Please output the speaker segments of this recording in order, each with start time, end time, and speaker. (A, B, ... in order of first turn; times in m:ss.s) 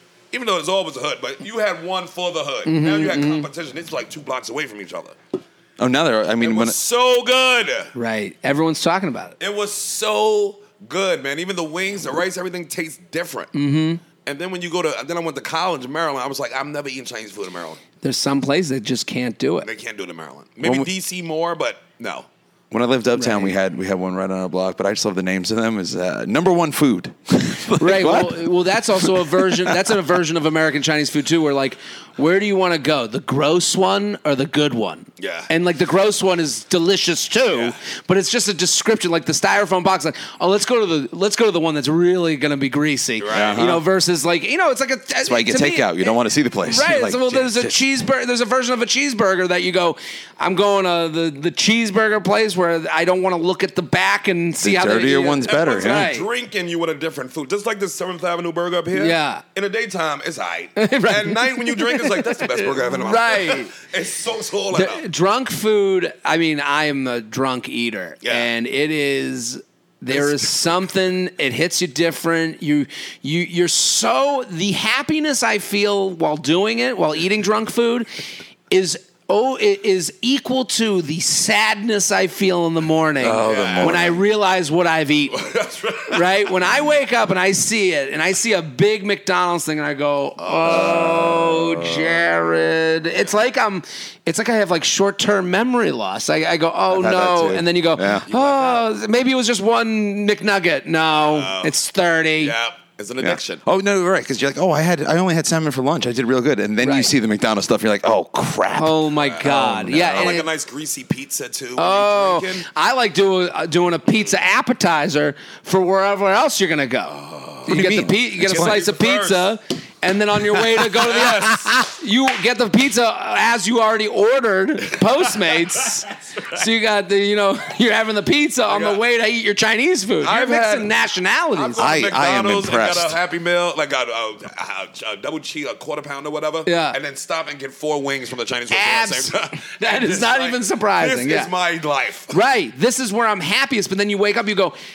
0:00.3-0:05.2 A
0:02.6-0:03.5 B
0:05.8-0:06.8 C
0:06.4-0:07.9 A
0:07.9-0:09.4 B
0:09.4-0:13.5 A
0:13.5-0:14.0 B
0:14.2-0:17.8 A
0:18.0-0:19.7 B
0:19.6-0:22.3 A
0:22.7-0:29.9 C
0:23.1-0:23.5 B
0:27.8-0:56.3 B
0:35.2-0:35.5 A
0:37.5-0:37.8 A
0:43.2-0:43.6 A
0:43.3-0:43.8 C
0:45.2-0:47.8 C
0:54.6-0:56.1 C
0:55.4-1:05.0 A
0:58.9-0:59.4 B
1:00.8-1:03.7 B
1:04.7-1:18.1 B
1:08.2-1:08.5 A
1:10.1-1:10.7 A
1:18.7-1:25.5 B
1:23.2-1:24.2 C
1:23.4-1:24.1 A
1:25.3-1:26.5 A
1:26.1-1:42.5 B
1:30.4-1:31.1 A
1:30.6-1:32.2 C
1:36.9-1:38.2 C
1:38.2-1:38.9 A
1:41.2-1:41.7 A
1:42.4-1:43.6 A
1:43.2-1:50.4 C
1:46.8-1:47.1 B
1:48.7-1:50.5 B
1:49.2-1:52.6 A
1:51.8-2:11.8 B
1:57.1-1:57.7 A
1:57.7-1:58.8 C
1:58.4-1:59.5 A
2:00.7-2:01.8 A
2:08.7-2:09.0 A
2:10.2-2:10.9 A
2:11.5-2:22.4 A
2:11.8-2:13.2 C
2:16.6-2:17.0 B
2:18.7-2:21.5 B
2:22.3-2:24.7 B